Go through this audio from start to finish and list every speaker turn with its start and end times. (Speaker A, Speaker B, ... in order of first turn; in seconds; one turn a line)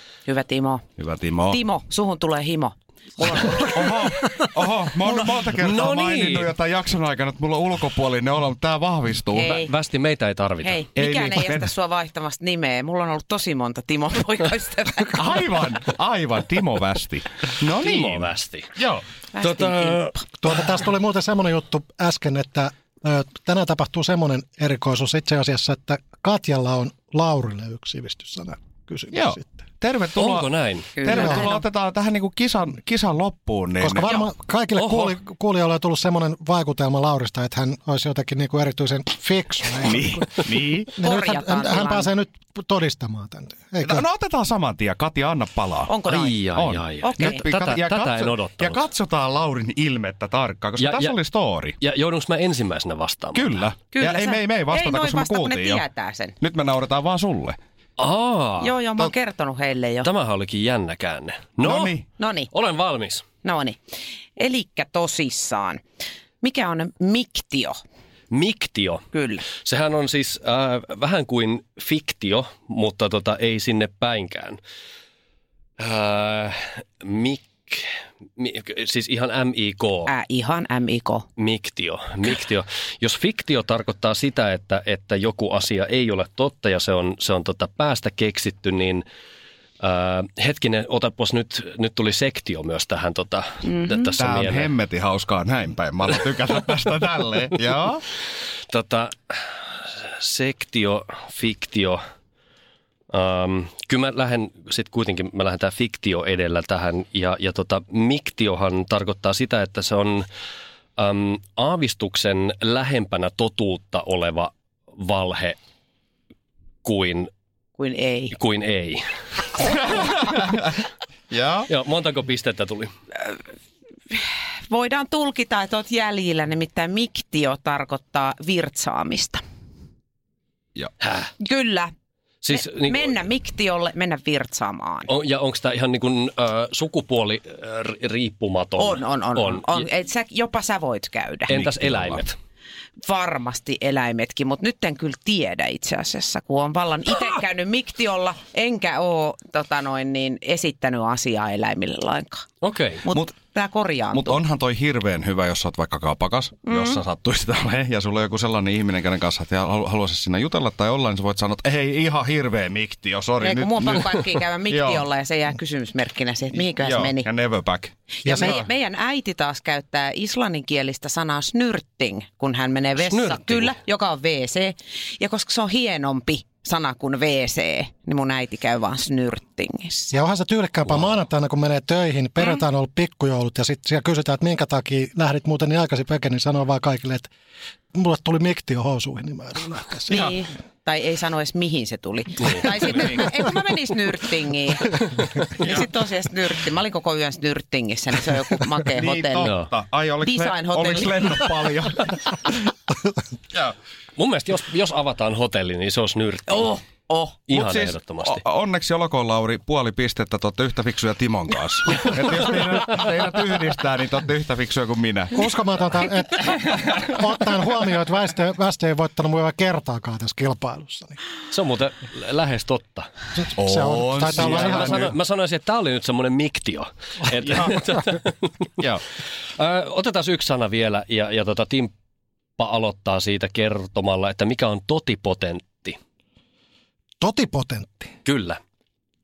Speaker A: 0.2-0.8
Speaker B: 1.0-1.6
Speaker A: 1.5-3.8
Speaker B: 3.2-9.6
Speaker A: 5.0-5.3
Speaker C: 5.5-6.5
Speaker A: 9.3-9.7
Speaker C: 9.4-10.8
Speaker A: 10.6-15.2
Speaker B: 11.0-11.7
Speaker B: 15.2-19.0
Speaker C: 17.8-18.7
Speaker A: 19.3-20.2
Speaker C: 19.4-20.1
Speaker D: 20.4-29.6
Speaker B: 29.1-34.2
Speaker C: 30.1-31.4
Speaker A: 30.9-31.6
Speaker D: 31.1-31.5
Speaker D: 33.8-44.0
Speaker C: 34.8-35.2
Speaker B: 39.8-40.9
Speaker A: 41.0-42.1
Speaker B: 43.8-51.8
Speaker A: 45.9-46.4
Speaker C: 46.1-48.8
Speaker A: 47.0-47.4
Speaker C: 50.8-51.2
Speaker C: 51.8-53.6
Speaker B: 53.3-55.8
Speaker A: 53.9-56.4
Speaker B: 56.4-57.6
Speaker C: 58.0-58.8
Speaker A: 58.6-60.1
Speaker C: 60.0-63.2
Speaker B: 61.6-62.0
Speaker A: 62.2-62.5
Speaker A: 63.4-63.8
Speaker A: 64.4-65.8
Speaker A: 66.4-67.8
Speaker C: 68.3-74.6
Speaker A: 69.1-69.5
Speaker C: 75.8-80.1
Speaker A: 80.1-81.3
Speaker C: 81.4-89.0
Speaker C: 89.8-94.7
Speaker B: 94.2-98.0
Speaker C: 98.7-102.0
Speaker C: 103.1-110.2
Speaker C: 111.0-115.6
Speaker C: 116.8-117.3
Speaker A: 117.8-118.3
Speaker C: 118.3-119.0
Speaker B: 119.6-121.7
Speaker C: 121.7-122.9
Speaker A: 124.1-129.4
Speaker C: 131.0-131.3
Speaker A: 131.4-131.9
Speaker C: 132.4-133.2
Speaker A: 132.5-135.1
Speaker C: 135.1-139.8
Speaker A: 138.8-141.6
Speaker C: 141.5-142.3
Speaker B: 141.5-142.2
Speaker A: 143.0-152.4
Speaker C: 152.6-153.0
Speaker A: 153.0-154.4
Speaker B: 154.1-165.1
Speaker A: 156.7-157.0
Speaker A: 163.4-167.3
Speaker B: 166.7-168.7
Speaker A: 168.2-180.1
Speaker C: 173.0-173.7
Speaker D: 180.1-187.3
Speaker C: 180.8-181.2
Speaker D: 187.9-190.4
Speaker A: 190.1-195.0
Speaker A: 195.5-199.5
Speaker B: 195.6-195.8
Speaker B: 198.9-202.1
Speaker C: 199.4-199.7
Speaker A: 200.2-201.2
Speaker C: 204.2-206.8
Speaker A: 206.5-207.4
Speaker C: 207.5-208.4
Speaker B: 207.5-215.4
Speaker C: 212.0-212.6
Speaker D: 215.3-221.2
Speaker C: 221.5-223.1
Speaker D: 223.3-225.1
Speaker B: 223.6-225.2
Speaker C: 224.3-228.7
Speaker B: 227.4-227.8
Speaker C: 229.6-231.9
Speaker C: 232.6-236.0
Speaker D: 237.2-238.2
Speaker C: 238.2-238.6